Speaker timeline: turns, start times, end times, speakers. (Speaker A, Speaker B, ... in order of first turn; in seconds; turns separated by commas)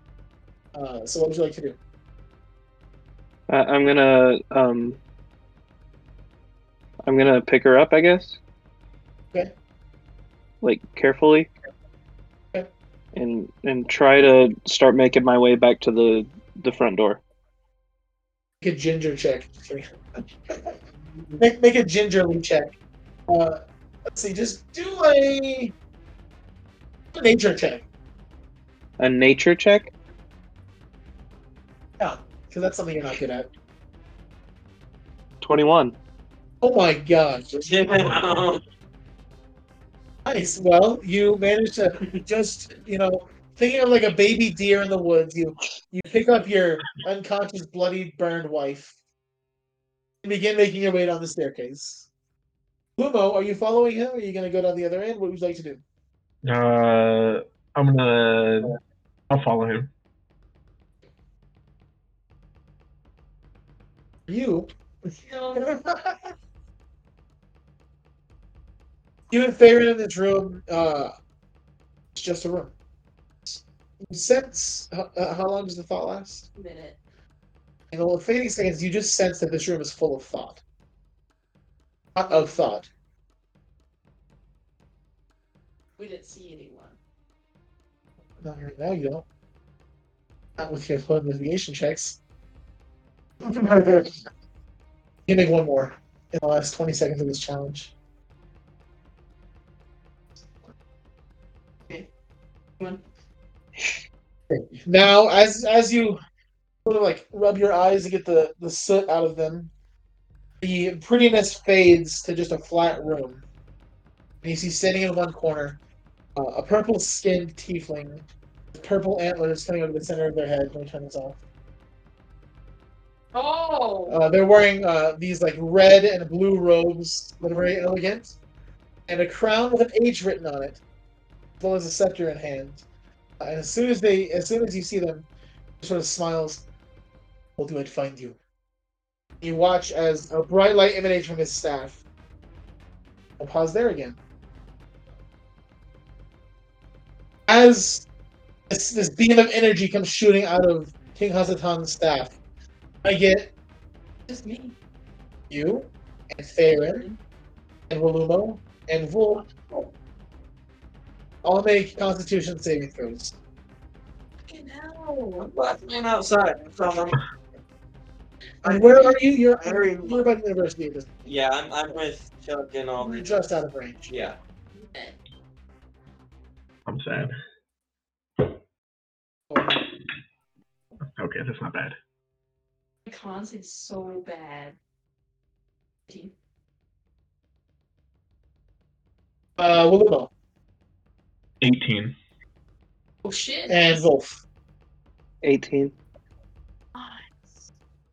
Speaker A: 0.7-1.8, Speaker B: 3.5-5.0, Speaker B: 7.0-8.4, Speaker B: 10.6-11.5, Speaker B: 13.1-17.2, Speaker A: 18.6-19.9, Speaker A: 20.5-20.8, Speaker A: 21.4-22.7, Speaker A: 23.3-25.7, Speaker A: 27.1-27.8, Speaker B: 29.0-29.9, Speaker A: 32.0-33.5, Speaker B: 35.4-36.0, Speaker A: 36.6-37.8, Speaker C: 37.7-38.6, Speaker A: 40.2-48.9, Speaker A: 50.2-52.1, Speaker A: 53.0-55.8, Speaker D: 56.5-58.8, Speaker D: 59.3-59.9, Speaker A: 64.3-64.7, Speaker E: 65.3-65.6, Speaker A: 65.5-66.3, Speaker A: 69.3-71.1, Speaker A: 72.1-72.7, Speaker A: 73.5-76.5, Speaker E: 76.5-77.0, Speaker A: 77.9-80.6, Speaker A: 82.2-82.9, Speaker E: 86.0-87.0, Speaker A: 88.4-89.2, Speaker A: 90.6-92.2, Speaker A: 93.5-94.1, Speaker A: 95.3-97.9, Speaker A: 104.5-106.2, Speaker A: 106.8-109.7, Speaker A: 110.6-113.4, Speaker A: 114.4-115.8, Speaker A: 116.4-121.4, Speaker E: 123.3-124.2, Speaker A: 124.1-128.4, Speaker A: 129.1-130.8, Speaker A: 131.6-132.8, Speaker A: 133.4-135.3, Speaker A: 135.8-136.7, Speaker A: 137.6-138.4, Speaker A: 139.4-142.0, Speaker A: 143.4-144.2, Speaker A: 147.5-148.1, Speaker A: 148.7-152.4, Speaker A: 153.0-153.5, Speaker E: 154.3-154.8, Speaker A: 155.5-157.1, Speaker E: 156.7-157.2, Speaker A: 157.9-159.9, Speaker A: 161.4-163.3, Speaker E: 164.5-165.5, Speaker C: 165.4-167.2, Speaker C: 168.6-170.2, Speaker A: 168.6-171.1, Speaker C: 171.2-173.3, Speaker A: 173.0-174.1, Speaker C: 174.1-174.4, Speaker D: 176.9-177.3, Speaker A: 179.5-179.8, Speaker D: 181.2-182.0, Speaker E: 183.1-184.8, Speaker A: 189.6-190.3, Speaker D: 191.6-192.2, Speaker E: 193.2-194.1, Speaker A: 193.7-194.4, Speaker B: 195.4-195.9, Speaker E: 196.9-197.5